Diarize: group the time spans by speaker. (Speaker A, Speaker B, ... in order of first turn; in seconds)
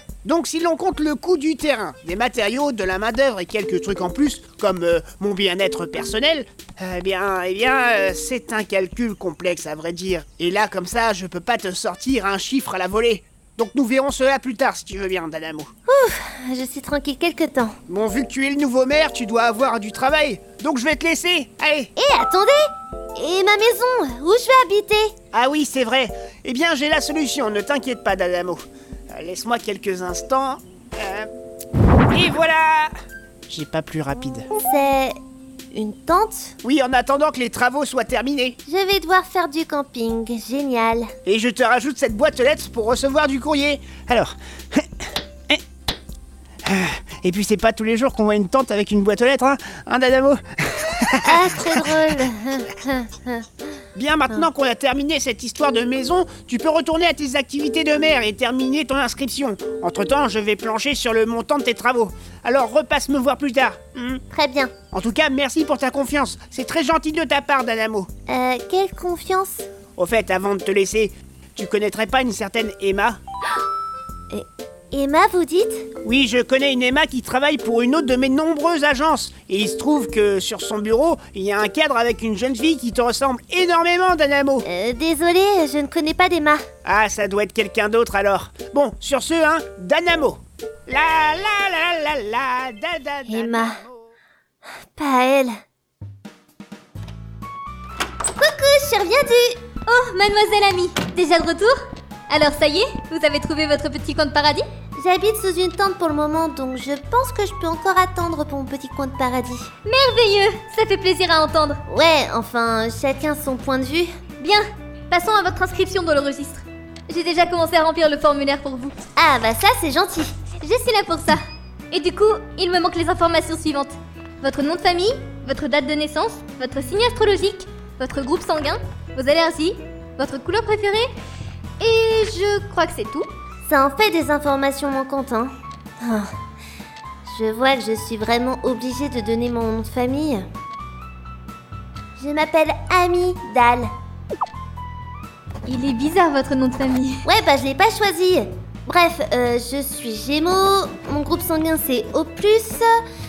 Speaker A: 0.2-15.7, 17.9-21.9, 25.3-31.3, 32.1-32.9, 33.5-34.5, 36.6-38.6, 41.2-45.6, 46.7-52.0, 53.9-64.2, 64.9-68.1, 70.0-73.2, 76.0-84.6, 86.8-94.1
Speaker B: 15.9-17.8, 22.0-22.6, 23.2-25.1, 34.6-35.1, 35.7-36.5, 38.7-41.1, 51.3-53.5, 64.3-64.8, 68.3-69.7, 74.3-75.9, 84.6-86.7, 93.3-93.8, 95.0-95.5, 98.4-99.6, 105.0-109.7, 111.9-114.1, 119.2-120.4, 133.7-136.3, 137.2-140.4, 142.2-143.9, 147.2-152.9
Speaker C: 99.9-101.7, 102.3-104.6, 109.8-111.8, 114.4-119.0, 120.6-131.1, 131.8-133.3, 145.7-147.2